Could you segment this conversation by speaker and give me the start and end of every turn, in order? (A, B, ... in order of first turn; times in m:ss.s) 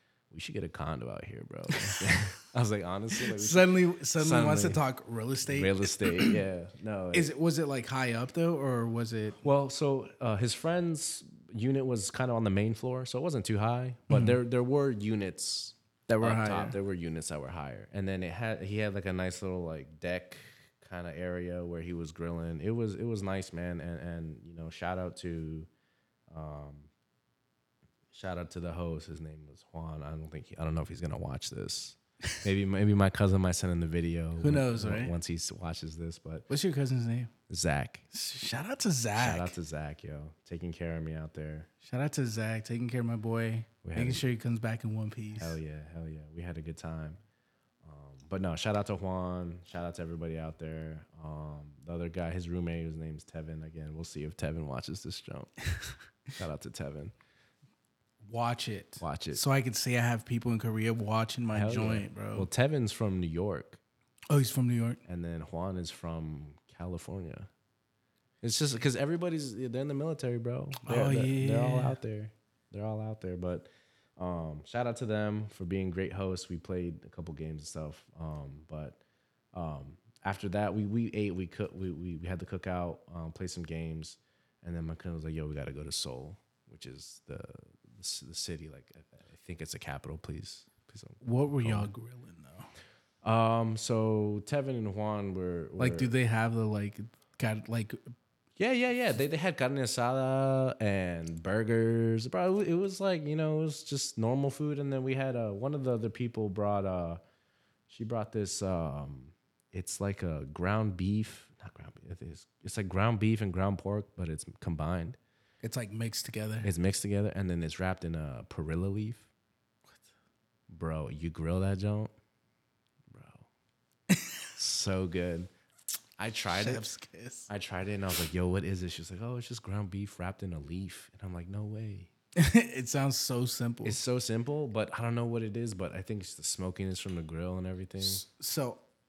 0:00.3-0:04.8 A
0:01.7-0:02.2 B
0:03.2-0:06.4 B
0:05.5-0:07.3 A
0:07.1-0:09.4 B
0:09.4-0:25.7 A
0:14.1-0:14.4 B
0:16.2-0:16.8 B
0:26.3-0:26.9 A
0:28.1-0:36.5 A
0:34.4-0:35.2 B
0:36.5-0:37.3 B
0:37.5-0:38.0 A
0:38.1-0:39.5 B
0:39.2-0:41.7 A
0:41.8-0:45.6 B
0:43.8-0:44.2 A
0:45.4-0:47.2 A
0:47.8-0:55.5 A
0:56.4-0:57.1 A
0:58.3-1:02.5 B
0:59.0-0:59.4 A
1:01.5-1:03.8 A
1:04.3-1:05.0 B
1:05.0-1:07.5 A
1:08.4-1:19.0 A
1:10.8-1:12.0 B
1:19.5-1:31.9 A
1:31.2-1:32.7 B
1:33.2-1:36.1 A
1:35.8-1:38.1 B
1:38.6-1:47.2 A
1:47.9-1:55.2 A
1:55.6-1:56.7 B
1:56.6-1:59.3 A
2:00.7-2:02.1 A
2:03.1-2:03.5 A
2:04.1-2:04.4 B
2:04.6-2:05.5 A
2:06.2-2:06.8 A
2:06.5-2:07.5 B
2:07.5-2:12.1 A
2:12.4-2:14.0 B
2:13.8-2:18.2 A
2:18.0-2:18.8 B